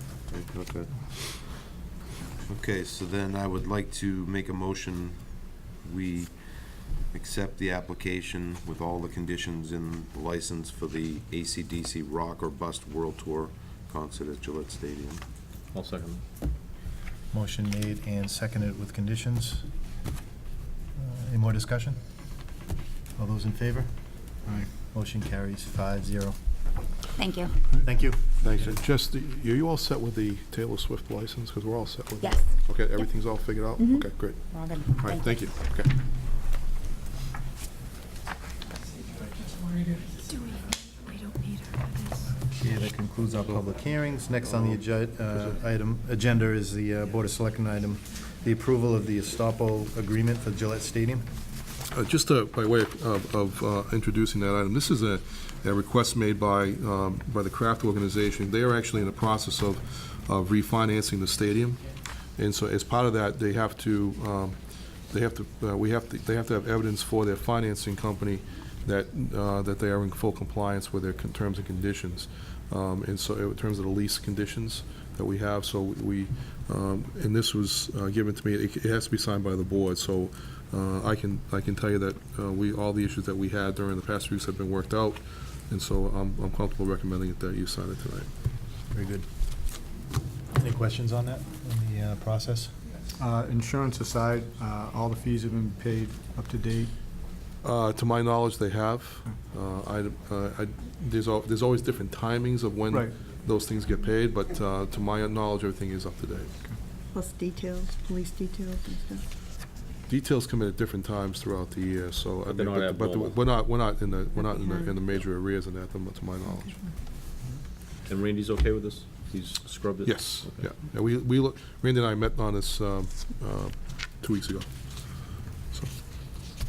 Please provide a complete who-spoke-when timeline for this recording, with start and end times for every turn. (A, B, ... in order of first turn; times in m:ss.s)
0:00.3-0:00.9 A
0:02.5-0:05.2 A
0:05.8-0:15.2 A
0:15.7-0:16.2 B
0:17.3-0:19.7 C
0:21.0-0:22.0 C
0:23.2-0:23.9 C
0:24.9-0:26.4 C
0:27.2-0:27.6 D
0:27.8-0:28.3 C
0:28.4-0:35.9 E
0:32.2-0:32.5 D
0:33.8-0:35.4 D
0:40.3-0:42.1 D
0:42.5-0:51.3 C
0:51.9-1:01.8 E
1:02.4-1:28.3 E
1:28.9-1:29.3 C
1:30.5-1:32.7 C
1:33.2-1:37.0 F
1:37.6-1:46.6 E
1:42.9-1:43.2 F
1:47.2-1:49.2 G
1:50.1-1:56.9 E
1:52.5-1:53.7 B
1:58.1-2:00.8 B
2:00.0-2:05.9 E